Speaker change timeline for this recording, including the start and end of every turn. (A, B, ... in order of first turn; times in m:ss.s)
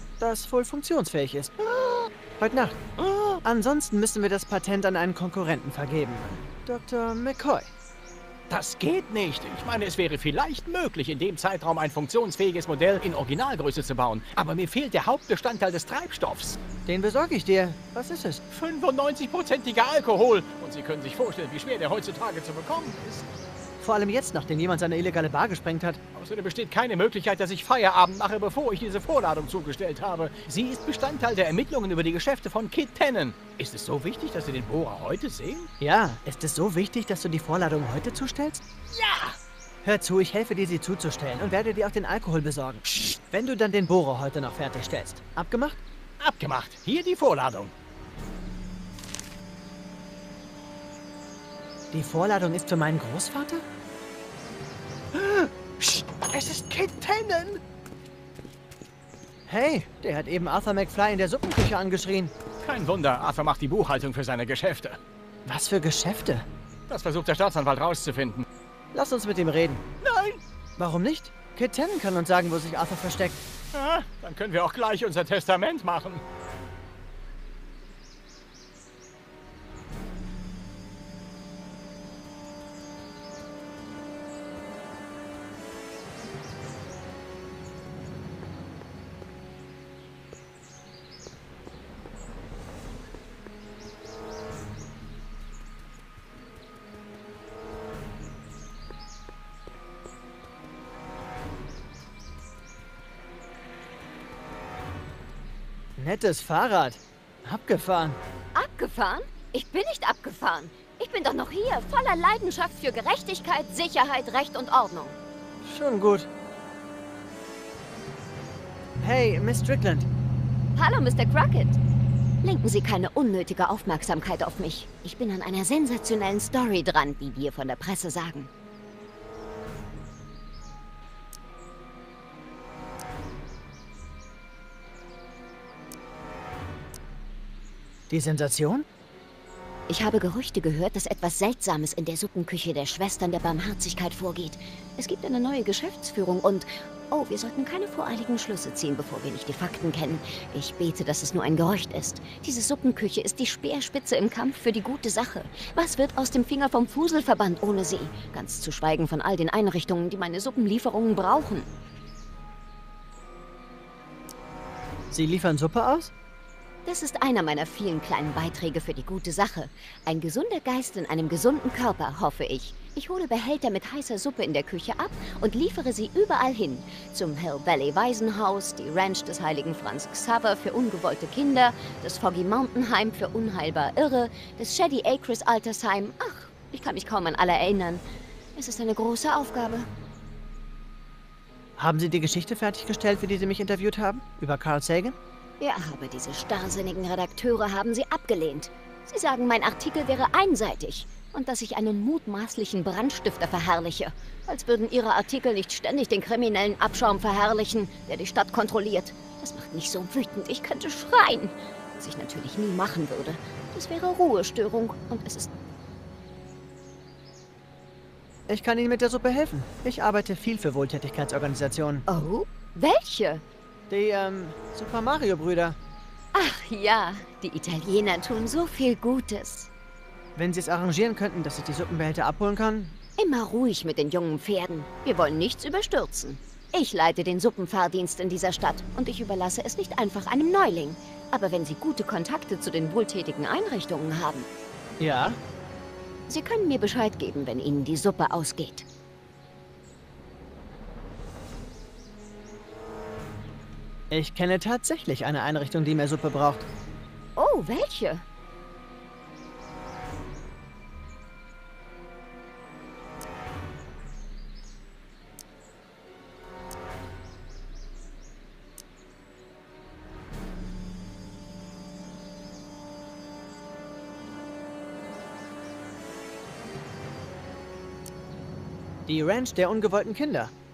0:00.2-0:01.5 A
0:01.6-0:02.1 B
0:02.4-0:02.8 A
0:03.0-0:03.4 B
0:03.4-0:07.7 A
0:08.5-0:16.6 B
0:16.8-0:18.4 A
0:18.5-0:23.3 B
0:23.8-0:26.0 A
0:26.1-0:35.7 B
0:35.8-0:38.6 A
0:38.9-0:39.4 B
0:39.8-0:45.8 A
0:46.2-0:47.7 B
0:51.9-0:53.6 A
0:55.1-0:57.6 B
0:59.5-1:02.3 A
1:02.6-1:05.0 B
1:05.4-1:06.4 A
1:06.9-1:08.4 B
1:08.9-1:09.8 A
1:10.0-1:10.4 B
1:10.8-1:13.4 A
1:13.7-1:16.2 B
1:46.0-1:48.2 A
1:48.5-1:55.2 C
1:55.6-1:56.3 A
1:59.0-2:00.1 A
2:00.7-2:01.8 C
2:02.4-2:08.5 C
2:18.1-2:18.9 A
2:19.9-2:41.7 C
2:45.1-2:46.1 A
2:46.8-3:08.0 C
3:08.6-3:09.9 C
3:11.8-3:15.2 A
3:15.6-3:35.5 C
3:38.5-3:42.0 A
3:42.1-3:43.4 C
3:43.9-3:45.8 A
3:46.3-3:49.7 C
3:50.4-3:53.0 A
3:53.2-4:04.4 C
4:05.0-4:05.4 A
4:06.3-4:08.8 C
4:14.1-4:16.6 A
4:17.4-4:18.2 C
4:39.0-4:40.5 A